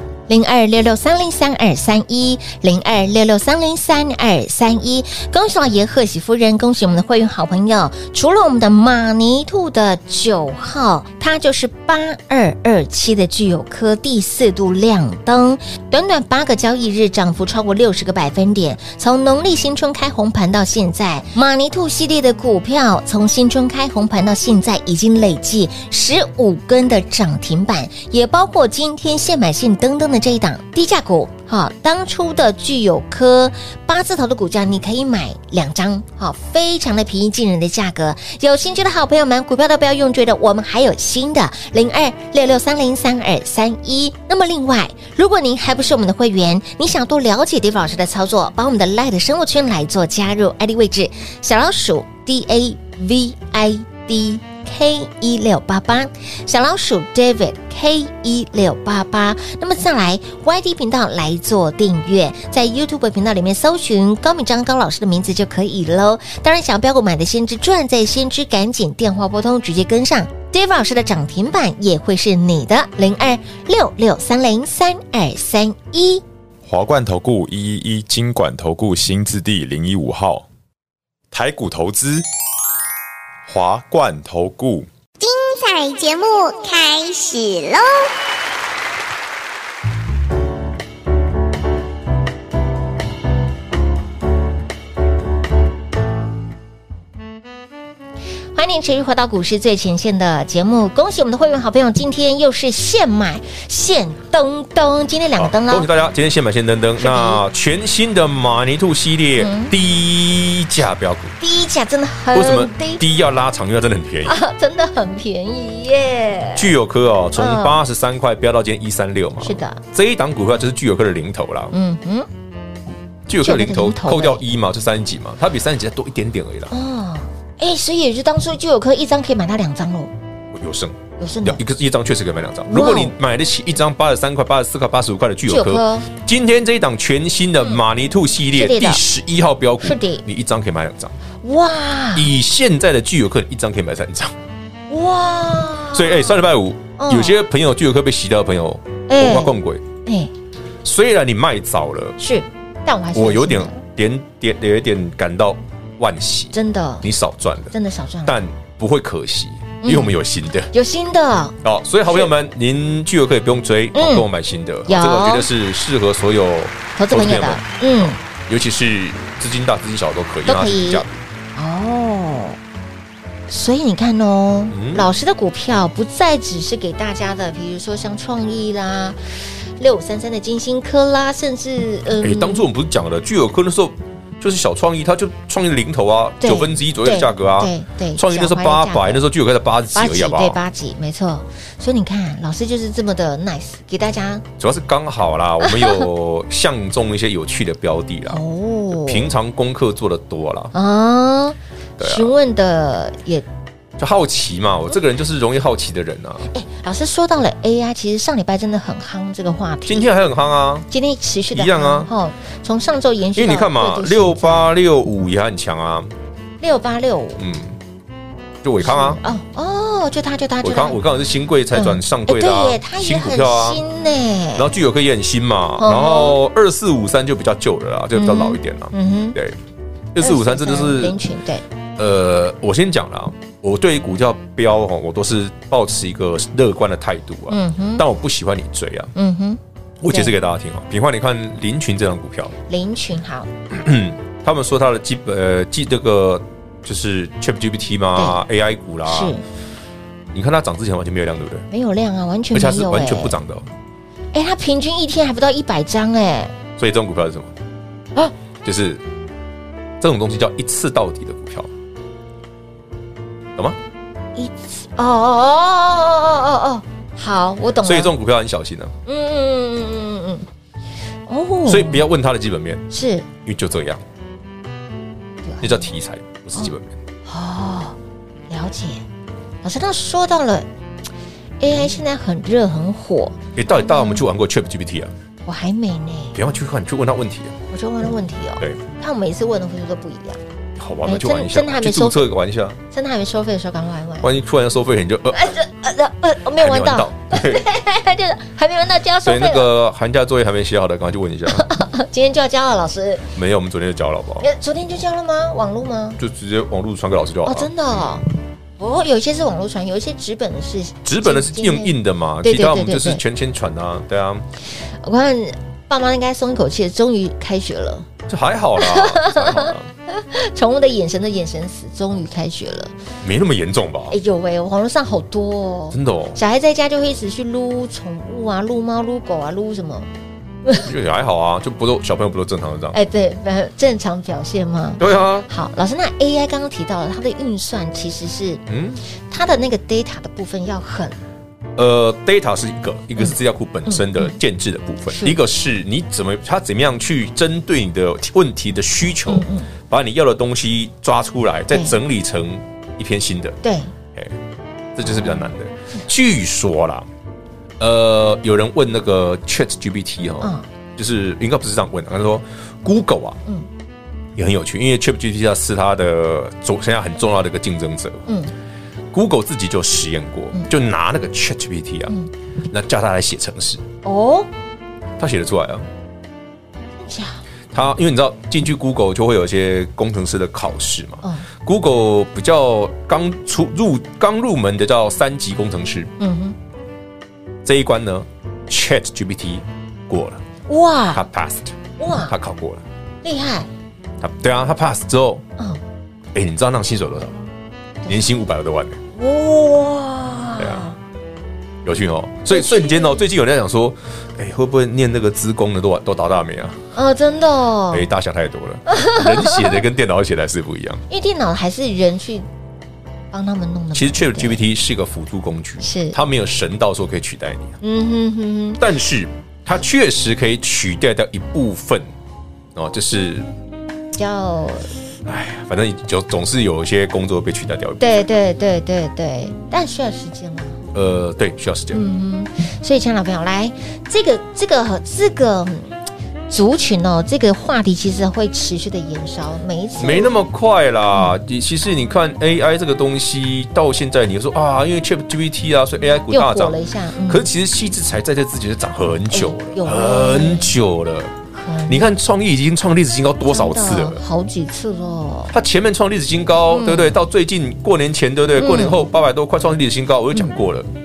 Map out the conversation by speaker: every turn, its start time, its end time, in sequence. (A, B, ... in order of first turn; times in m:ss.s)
0:00.3-1:16.2 A
1:16.6-1:20.4 B
1:21.3-1:22.2 B
1:23.5-1:24.9 B
1:25.2-1:28.1 C
1:38.5-1:45.9 A
1:45.4-1:51.3 D
1:47.0-1:47.4 A
1:49.4-1:49.7 A
1:51.4-1:53.0 A
1:52.3-1:54.4 D
1:54.2-1:56.7 A
1:56.5-2:01.7 D
1:57.4-1:57.8 A
1:59.4-1:59.8 A
2:01.7-2:02.3 A
2:03.3-2:06.7 D
2:03.4-2:04.4 A
2:06.7-2:10.1 A
2:10.5-2:21.1 D
2:11.2-2:11.6 A
2:12.7-2:13.1 A
2:15.5-2:16.1 A
2:18.5-2:19.0 A
2:19.8-2:20.2 A
2:21.4-2:22.3 A
2:22.1-2:24.3 D
2:24.9-2:26.4 A
2:25.9-2:29.8 D
2:27.0-2:27.4 A
2:29.1-2:30.3 A
2:30.8-2:32.2 D
2:32.2-2:33.8 A
2:33.1-2:37.7 D
2:36.5-2:37.0 A
2:37.7-2:38.4 A
2:38.2-2:40.7 D
2:39.8-2:40.1 A
2:40.7-2:41.6 A
2:41.6-2:51.2 D
2:42.1-2:42.3 A
2:43.9-2:44.3 A
2:44.9-2:45.5 A
2:47.0-2:48.2 A
2:50.4-2:52.6 A
2:53.5-2:59.2 A
2:54.7-2:55.1 D
2:59.8-3:02.7 A
3:02.2-3:10.6 D
3:06.4-3:09.2 A
3:09.9-3:14.4 A
3:14.6-3:20.7 D
3:15.6-3:16.0 A
3:18.3-3:19.3 A
3:20.7-3:23.4 A
3:22.0-3:22.3 D
3:24.0-3:26.5 D
3:26.5-3:30.1 A
3:29.8-3:30.9 D
3:30.9-3:34.7 A
3:31.5-3:32.1 D
3:33.4-3:36.1 D
3:36.6-3:37.4 A
3:37.4-3:37.7 D
3:38.6-3:39.2 D
3:38.8-3:41.0 A
3:40.6-3:43.8 D
3:41.7-3:44.6 A
3:44.6-3:49.6 D
3:45.8-3:46.4 A
3:48.1-3:49.4 A
3:50.1-3:51.2 D
3:50.2-3:51.6 A
3:52.0-3:59.1 D
3:57.5-3:58.0 A
3:59.1-4:00.3 A
4:00.0-4:02.5 D
4:02.7-4:03.5 A
4:03.7-4:09.3 D
4:09.0-4:09.4 A
4:10.3-4:11.7 D
4:11.7-4:13.4 A
4:12.5-4:13.7 D
4:14.3-4:16.5 A
4:16.8-4:17.5 D
4:18.6-4:19.0 D
4:20.0-4:21.7 D
4:24.4-4:28.1 A
4:27.8-4:28.9 D
4:29.0-4:30.4 A
4:31.3-4:32.0 A
4:31.6-4:32.8 D
4:32.9-4:33.3 A
4:33.4-4:34.0 D
4:35.4-4:35.9 A
4:35.6-4:37.0 D
4:37.3-4:38.0 A
4:38.5-4:39.0 A
4:39.6-4:40.7 A
4:41.6-4:44.2 A
4:43.5-4:45.1 D
4:45.4-4:46.4 A
4:46.3-4:47.6 D
4:47.7-4:50.4 A
4:50.8-4:52.8 D
4:51.0-4:52.3 A
4:52.9-4:54.3 A
4:54.2-4:55.5 D
4:55.3-4:59.7 A
4:56.6-4:57.6 D
4:59.2-5:01.7 D
5:01.5-5:03.2 A
5:03.3-5:04.5 D
5:04.4-5:06.2 A
5:06.2-5:07.7 D
5:07.4-5:08.2 A
5:08.8-5:13.2 A
5:11.0-5:14.4 D
5:15.0-5:18.0 A
5:18.3-5:19.9 D
5:18.8-5:22.9 A
5:23.2-5:24.2 D
5:24.1-5:30.1 A
5:25.9-5:26.4 D
5:30.8-5:33.0 D
5:32.9-5:38.6 A
5:35.0-5:35.5 D
5:38.7-5:39.0 D
5:39.3-5:41.2 A
5:41.8-5:53.6 D
5:43.2-5:44.4 A
5:45.1-5:45.4 A
5:49.3-5:49.7 A
5:51.7-5:52.0 A
5:53.6-5:53.9 A
5:54.9-5:57.1 D
5:55.0-5:55.5 A
5:57.8-6:03.4 D
6:00.4-6:00.6 A
6:04.4-6:08.3 D
6:08.3-6:08.5 A
6:09.1-6:12.1 D
6:12.7-6:13.8 D
6:14.0-6:14.5 A
6:15.2-6:15.8 D
6:17.0-6:17.4 A
6:17.7-6:26.1 D
6:26.2-6:26.5 A
6:27.6-6:30.4 D
6:30.7-6:31.2 A
6:31.1-6:32.8 D
6:32.0-6:32.3 A
6:33.2-6:33.7 A
6:34.2-6:35.4 D
6:36.3-6:37.4 D
6:38.1-6:39.0 D
6:39.2-6:41.0 A
6:40.6-6:40.8 D
6:41.8-6:46.8 D
6:42.5-6:43.2 A
6:46.9-6:48.1 A
6:47.9-6:51.0 D
6:48.9-6:49.8 A
6:51.1-6:52.5 A
6:53.3-6:54.6 A
6:53.9-6:57.8 D
6:55.8-6:56.2 A
6:57.8-6:58.8 A
6:58.8-7:02.1 D
7:02.7-7:03.5 D
7:04.1-7:04.9 A
7:05.2-7:08.2 D
7:08.0-7:10.8 A
7:10.9-7:12.0 D
7:11.9-7:16.0 A
7:16.5-7:20.3 A
7:20.0-7:31.3 D
7:26.3-7:27.5 A
7:29.3-7:30.7 A
7:31.5-7:32.1 A
7:31.9-7:34.2 D
7:33.5-7:35.5 A
7:35.5-7:40.9 D
7:36.7-7:37.2 A
7:38.6-7:39.0 A